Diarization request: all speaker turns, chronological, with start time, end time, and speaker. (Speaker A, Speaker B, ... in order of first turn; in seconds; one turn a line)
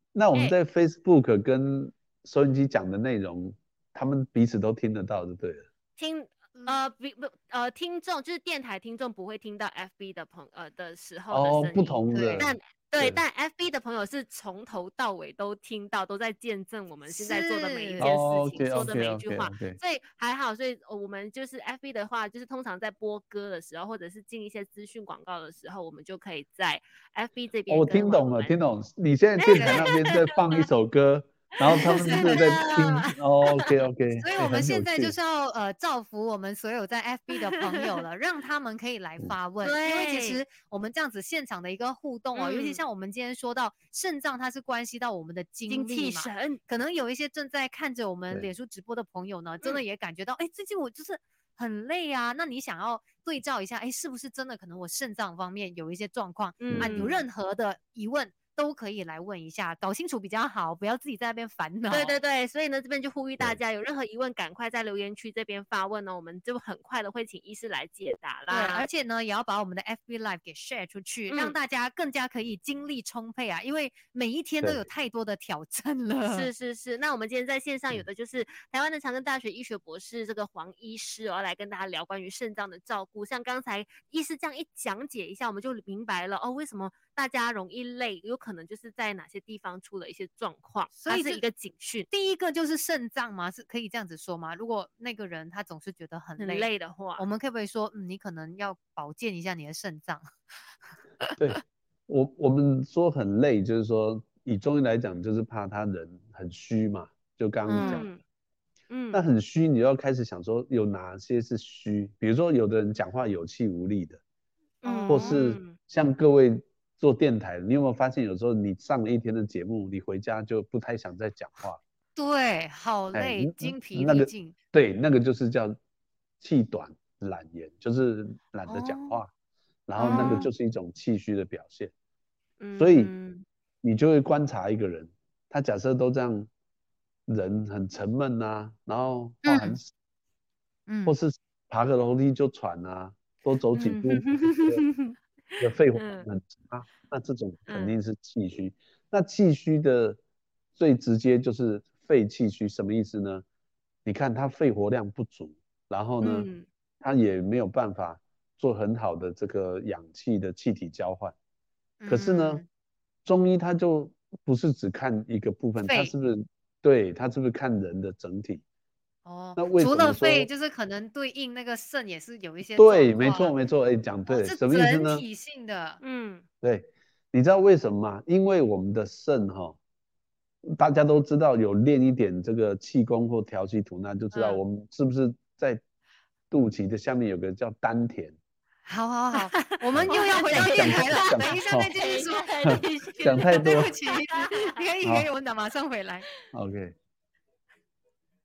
Speaker A: 0.1-5.7
Speaker B: 6.0-28.5
Speaker A: 11.3-13.2
Speaker C: 12.1-12.5
Speaker C: 17.1-18.1
Speaker A: 18.0-19.8
Speaker A: 27.7-35.2
Speaker B: 29.4-30.6
Speaker C: 29.5-29.9
Speaker B: 31.6-33.7
Speaker C: 31.8-32.9
Speaker C: 34.1-62.2
Speaker B: 39.6-40.4
Speaker B: 42.4-42.8
Speaker B: 45.7-46.6
Speaker B: 56.6-57.2
Speaker A: 56.7-57.1
Speaker B: 61.9-68.9
Speaker C: 68.5-76.5
Speaker B: 71.3-71.6
Speaker B: 76.2-92.1
Speaker C: 91.0-91.4
Speaker C: 92.1-96.7
Speaker B: 96.4-97.2
Speaker C: 97.2-100.2
Speaker A: 101.4-108.1
Speaker C: 107.7-108.1
Speaker B: 107.8-108.2
Speaker B: 108.9-109.2
Speaker A: 109.1-114.2
Speaker B: 114.8-115.8
Speaker C: 114.8-115.4
Speaker A: 115.1-121.8
Speaker C: 122.2-124.5
Speaker A: 123.1-125.8
Speaker A: 126.4-129.3
Speaker C: 128.7-129.2
Speaker A: 129.9-131.9
Speaker C: 130.0-130.5
Speaker B: 130.1-130.5
Speaker B: 132.6-133.4
Speaker A: 132.8-133.1
Speaker A: 133.8-136.5
Speaker A: 137.3-139.9
Speaker C: 139.4-139.8
Speaker C: 140.9-141.2
Speaker A: 141.1-144.8
Speaker B: 143.8-146.3
Speaker A: 145.6-150.2
Speaker B: 147.7-148.0
Speaker A: 150.8-153.4
Speaker A: 154.1-156.5
Speaker B: 156.2-156.7
Speaker A: 157.0-161.3
Speaker C: 162.0-162.7
Speaker A: 162.1-162.6
Speaker A: 163.2-168.6
Speaker C: 165.8-166.1
Speaker C: 169.3-173.5
Speaker A: 169.6-170.5
Speaker A: 172.8-175.2
Speaker C: 174.3-176.0
Speaker B: 176.0-176.4
Speaker A: 176.6-179.8
Speaker A: 180.6-185.8
Speaker C: 184.3-184.6
Speaker A: 186.5-188.4
Speaker C: 188.9-192.6
Speaker B: 189.3-194.8
Speaker A: 189.9-191.9
Speaker A: 192.6-193.9
Speaker C: 193.4-196.3
Speaker A: 195.0-195.3
Speaker A: 196.5-196.9